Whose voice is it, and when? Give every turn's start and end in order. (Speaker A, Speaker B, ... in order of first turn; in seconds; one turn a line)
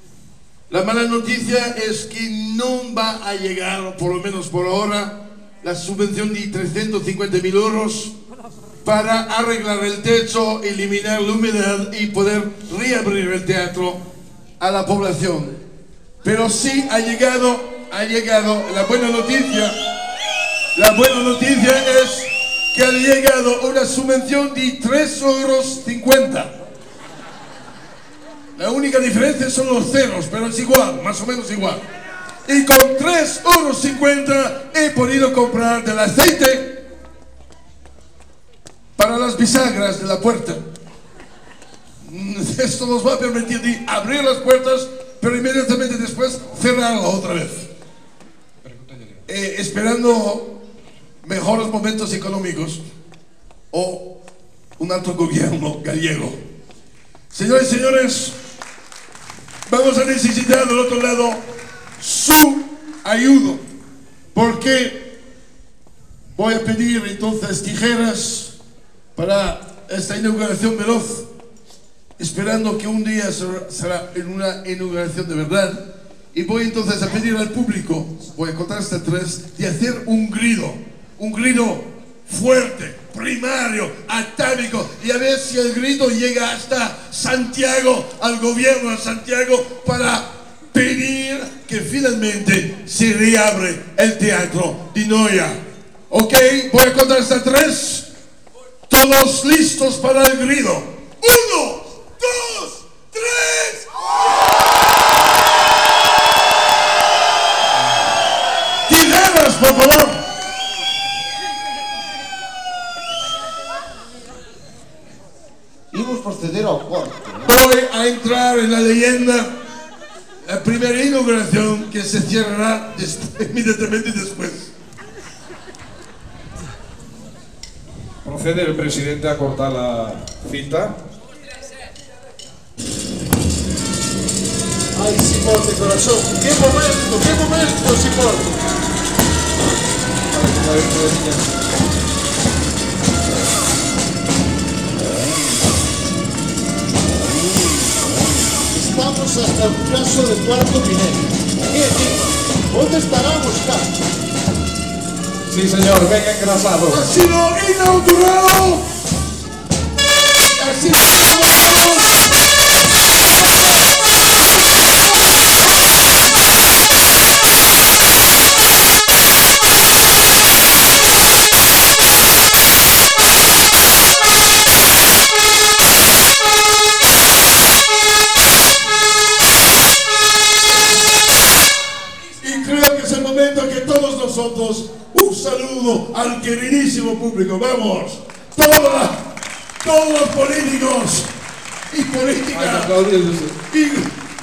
Speaker A: 0.7-8.1
Speaker A: 8.8-14.0
Speaker A: 14.6-15.6
Speaker A: 16.2-19.7
Speaker A: 20.7-26.5
Speaker A: 28.6-31.8
Speaker A: 32.5-36.8
Speaker A: 39.0-40.6
Speaker A: 42.0-47.6
Speaker B: 48.6-49.2
Speaker A: 49.3-50.5
Speaker A: 51.2-52.8
Speaker A: 53.7-54.0
Speaker A: 54.8-56.4
Speaker A: 57.3-58.4
Speaker A: 59.7-61.4
Speaker A: 62.0-63.6
Speaker A: 64.3-65.2
Speaker A: 66.3-68.5
Speaker A: 69.2-71.3
Speaker A: 72.2-75.8
Speaker A: 76.3-98.1
Speaker A: 98.9-103.9
Speaker A: 108.9-110.2
Speaker C: 115.9-117.5
Speaker A: 117.4-119.5
Speaker A: 120.4-124.7
Speaker B: 128.2-131.0
Speaker C: 134.9-138.6
Speaker B: 140.3-141.5
Speaker C: 148.7-153.9
Speaker B: 155.5-157.0
Speaker A: 156.9-158.9
Speaker A: 160.4-162.3
Speaker A: 182.4-191.3
Speaker A: 191.9-192.9
Speaker B: 192.5-193.6
Speaker A: 193.7-194.1